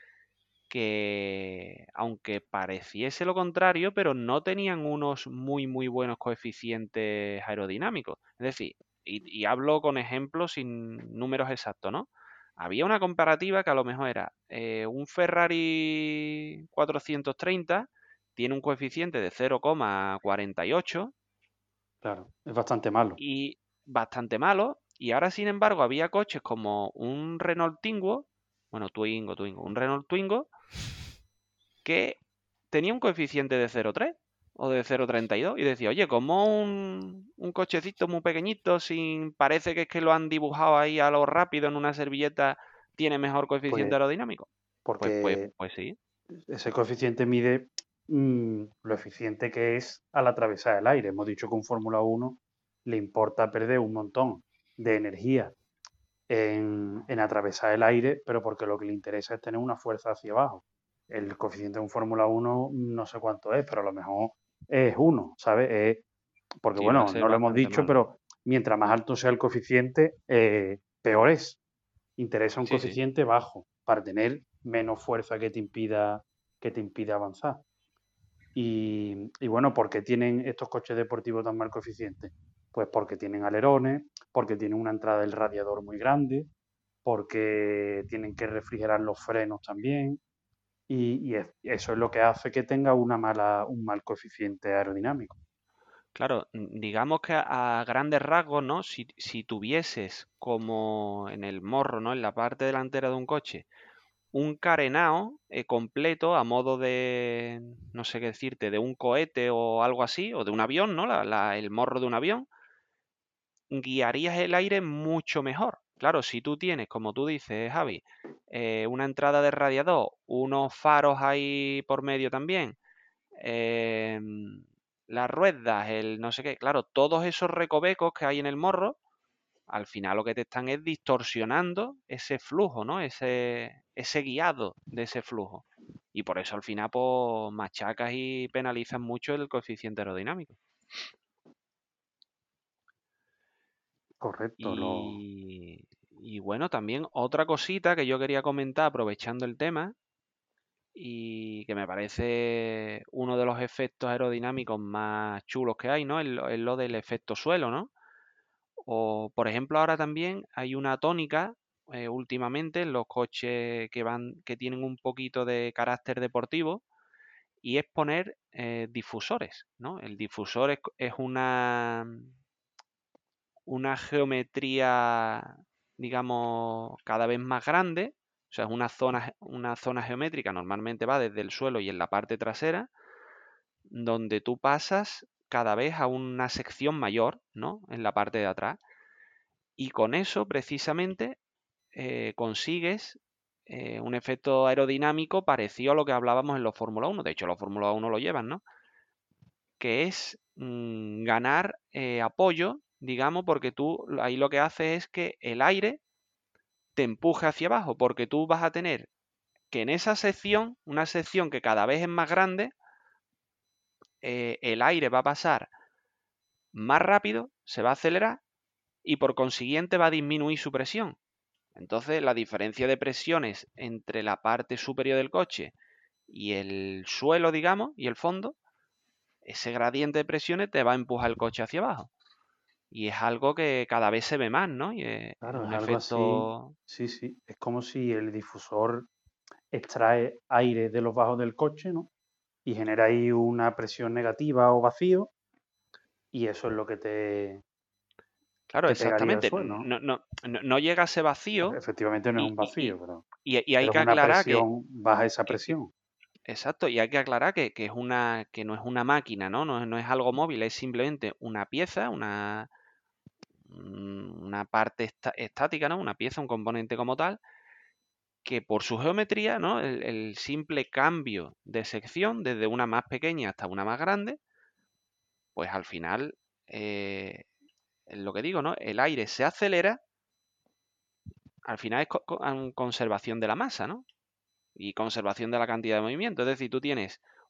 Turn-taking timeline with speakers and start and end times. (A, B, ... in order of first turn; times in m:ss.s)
0:00.7-0:21.1 A
0:22.0-0:23.2 B
0:23.2-0:30.5 A
0:31.8-0:32.2 A
0:32.7-0:44.5 A
0:43.7-0:44.0 B
0:44.8-0:45.5 B
0:45.0-0:46.0 A
0:46.5-0:55.5 B
0:56.3-1:06.0 B
1:06.6-1:11.6 B
1:06.8-1:07.9 A
1:12.2-1:17.6 B
1:12.6-1:13.0 A
1:18.5-1:26.5 B
1:27.0-1:30.2 B
1:30.9-1:35.4 B
1:36.1-1:43.6 A
1:44.3-1:52.5 A
1:53.7-2:02.8 A
2:03.4-2:09.0 A
2:09.7-2:20.6 A
2:24.2-2:25.2 B
2:24.6-2:29.9 A
2:30.9-2:37.9 A
2:38.8-2:46.8 A
2:47.6-2:52.3 A
2:53.7-3:02.9 A
3:03.9-3:08.8 A
3:09.8-3:11.4 A
3:11.9-3:18.6 A
3:19.8-3:26.0 A
3:27.0-3:29.1 A
3:29.7-3:32.7 A
3:34.2-3:35.7 A
3:36.7-3:38.4 A
3:39.0-3:41.2 A
3:41.8-3:45.7 A
3:46.3-3:48.6 A
3:49.4-3:52.1 A
3:52.9-3:56.7 A
3:55.4-3:59.1 B
3:59.7-4:02.1 B
4:02.6-4:05.3 B
4:06.3-4:07.6 B
4:08.7-4:11.8 A
4:08.9-4:09.9 B
4:11.6-4:13.2 B
4:12.4-4:14.6 A
4:13.8-4:15.9 B
4:15.5-4:15.7 A
4:16.5-4:22.7 A
4:23.7-4:27.4 A
4:28.4-4:34.4 A
4:35.6-4:37.4 A
4:38.1-4:40.0 A
4:41.6-4:44.0 A
4:44.8-4:47.2 A